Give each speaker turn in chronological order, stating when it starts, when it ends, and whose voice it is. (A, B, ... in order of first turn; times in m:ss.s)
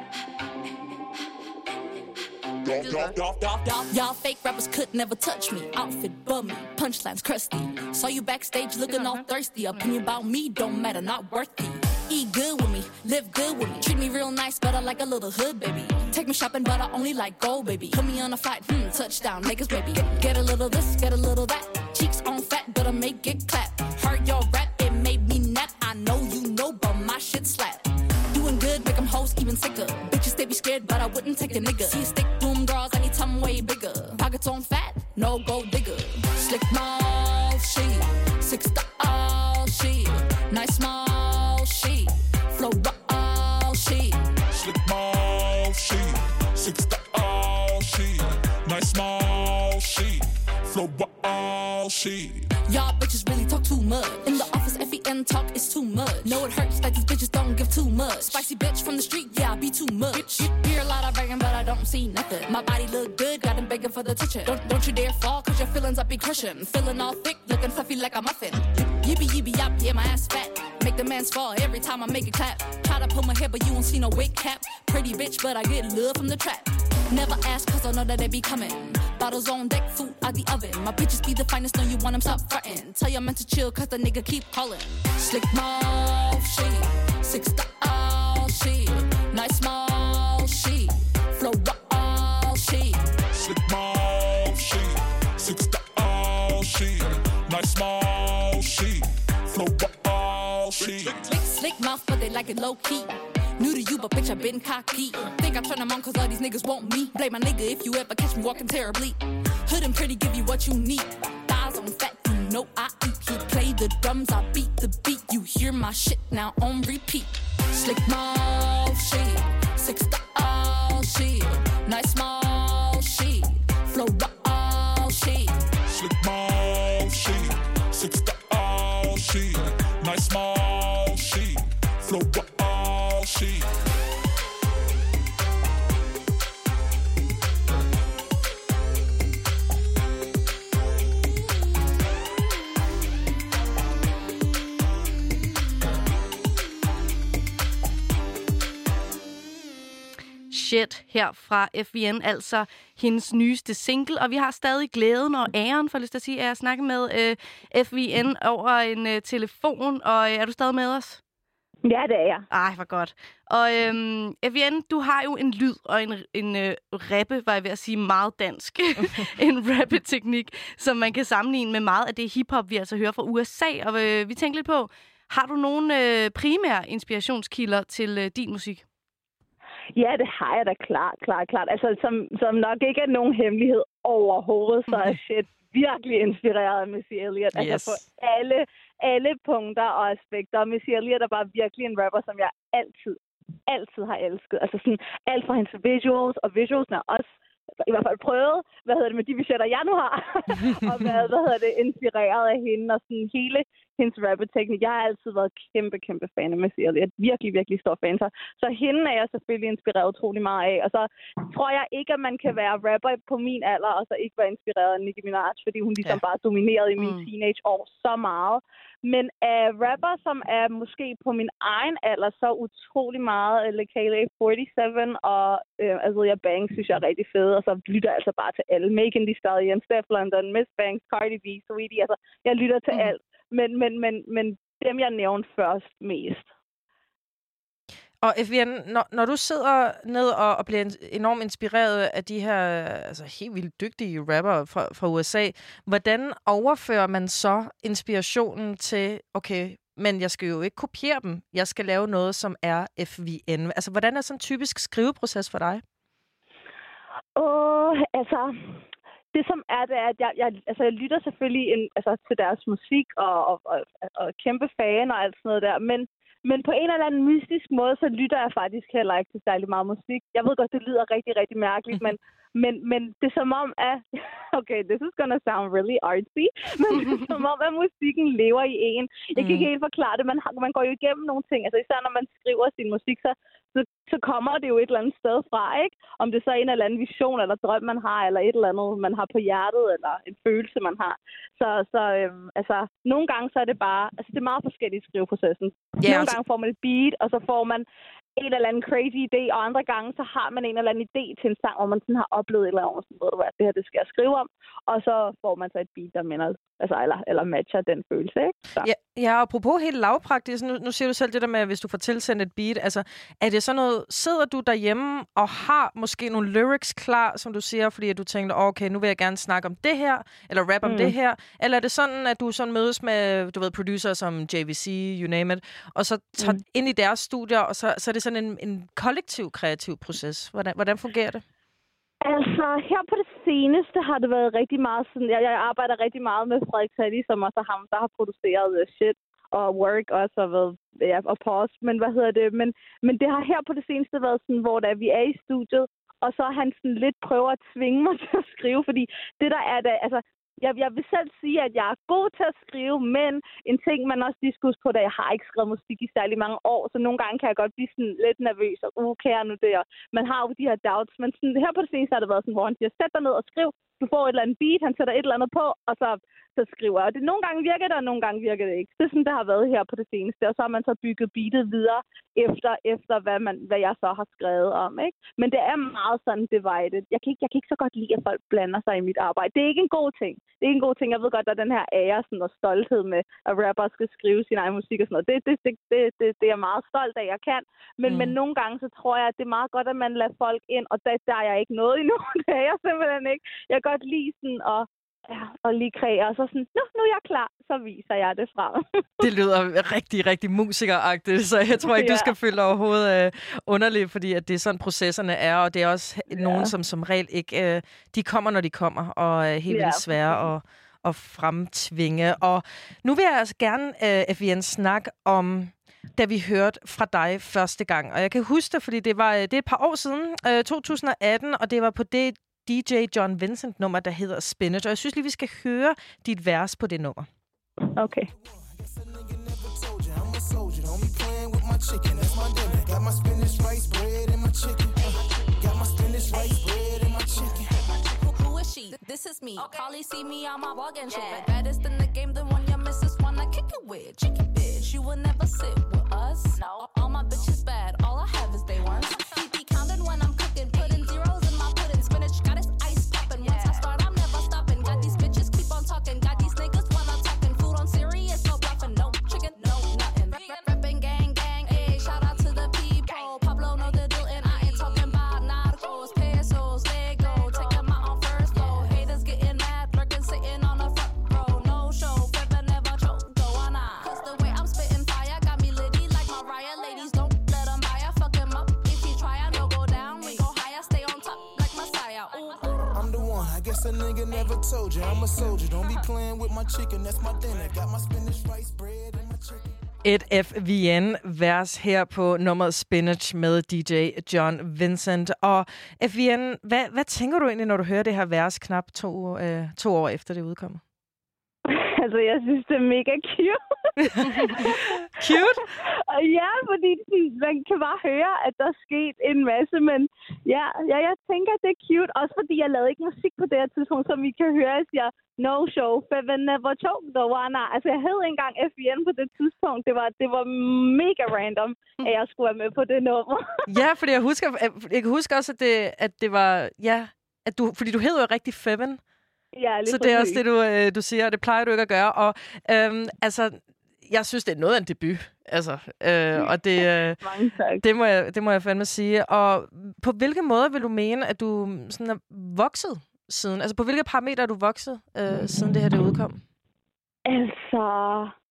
0:02.6-0:03.6 A
0:02.8-0:03.1 B
0:03.6-0:44.2 C
0:08.9-0:09.8 B
0:44.5-0:52.5 A
0:52.7-1:33.1 C
1:00.1-1:00.4 B
1:33.3-1:41.3 A
1:40.8-2:05.6 C
2:05.9-2:13.7 A
2:30.5-2:41.2 B
2:41.8-2:42.4 D
2:42.5-2:58.8 B
3:00.0-3:17.3 D
3:07.6-3:08.0 E
3:17.8-3:56.5 D
3:37.0-3:37.3 B
3:58.2-4:15.8 E
4:17.4-4:18.8 D
4:19.3-4:57.8 D
4:39.4-4:39.7 E
4:56.0-4:56.4 E
4:58.4-5:08.9 D
5:08.8-5:31.4 E
5:20.8-5:21.1 D
5:32.2-6:39.2 D
6:28.1-6:28.4 E
6:39.2-7:07.3 E
6:41.8-6:42.3 D
6:46.3-6:46.7 D
6:49.7-6:50.4 D
7:07.9-7:08.3 D
7:08.3-7:17.8 F
7:17.9-8:02.9 C
7:21.1-7:21.5 D
7:33.4-7:33.8 D
8:02.9-8:09.8 F
8:10.0-8:20.8 E
8:21.7-8:23.6 D
8:24.0-8:25.7 E
8:24.1-8:43.8 D
8:43.7-8:49.0 E
8:49.6-8:50.4 D
8:49.9-8:57.2 E
8:57.2-8:57.8 D
8:57.8-9:06.4 E
9:07.2-9:08.3 D